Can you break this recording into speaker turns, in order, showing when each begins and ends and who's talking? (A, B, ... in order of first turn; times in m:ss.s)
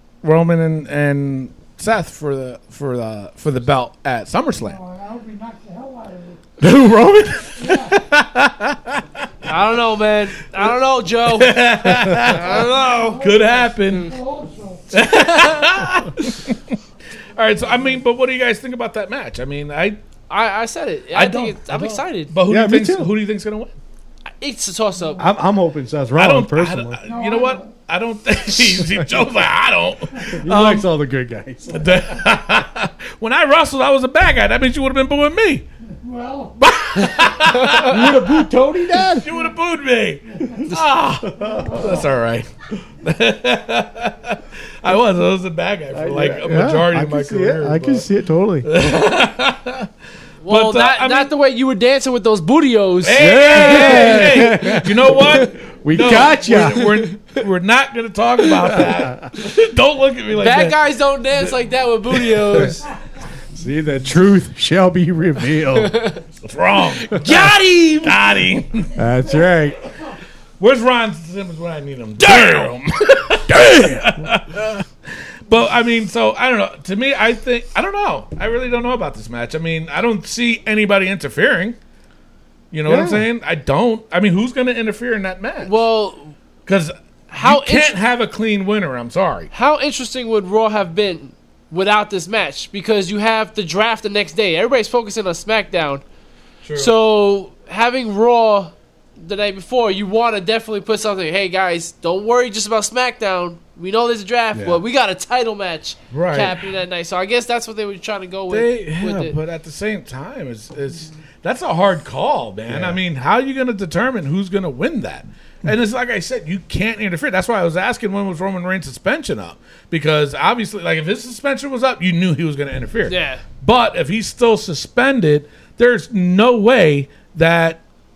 0:00.2-0:04.8 A
0:04.6-0:06.4 B
0:06.6-0:09.3 A
0:07.6-0:08.0 B
0:09.4-0:13.2 C
0:11.2-0:12.7 A
0:12.3-0:14.9 B
0:13.2-0:14.1 A
0:14.9-0:16.8 A
0:15.0-0:15.7 C
0:17.3-0:20.0 A
0:20.3-0:22.3 C
0:21.1-0:23.7 A
0:22.5-0:23.1 D
0:24.4-0:25.2 C
0:25.0-0:25.4 B
0:25.2-0:27.0 D
0:26.2-0:30.9 A
0:27.0-0:27.7 B
0:30.3-0:32.2 D
0:31.7-0:35.6 A
0:36.0-0:36.6 B
0:36.6-0:38.4 A
0:37.4-0:37.9 C
0:37.8-0:39.3 D
0:39.0-0:48.0 A
0:40.3-0:40.7 B
0:41.2-0:42.0 D
0:41.5-0:42.0 B
0:45.9-0:48.7 D
0:48.6-0:49.9 A
0:50.4-0:54.6 C
0:50.5-0:51.3 A
0:53.0-1:00.8 A
0:53.2-0:57.0 D
0:58.6-0:59.1 D
1:00.4-1:02.9 C
1:02.1-1:02.7 A
1:03.5-1:05.9 D
1:05.7-1:06.2 C
1:06.4-1:09.0 A
1:07.1-1:08.2 C
1:09.0-1:09.8 D
1:10.6-1:14.8 A
1:12.2-1:12.7 C
1:13.5-1:14.3 D
1:15.5-1:21.8 A
1:22.7-1:25.8 A
1:22.8-1:23.2 D
1:25.6-1:26.3 C
1:26.6-1:29.5 A
1:27.3-1:27.9 C
1:29.5-1:36.0 C
1:36.6-1:36.9 A
1:36.7-1:49.4 C
1:44.5-1:44.8 D
1:46.1-1:46.6 A
1:48.5-2:07.8 A
1:52.7-1:53.0 D
2:03.1-2:03.4 C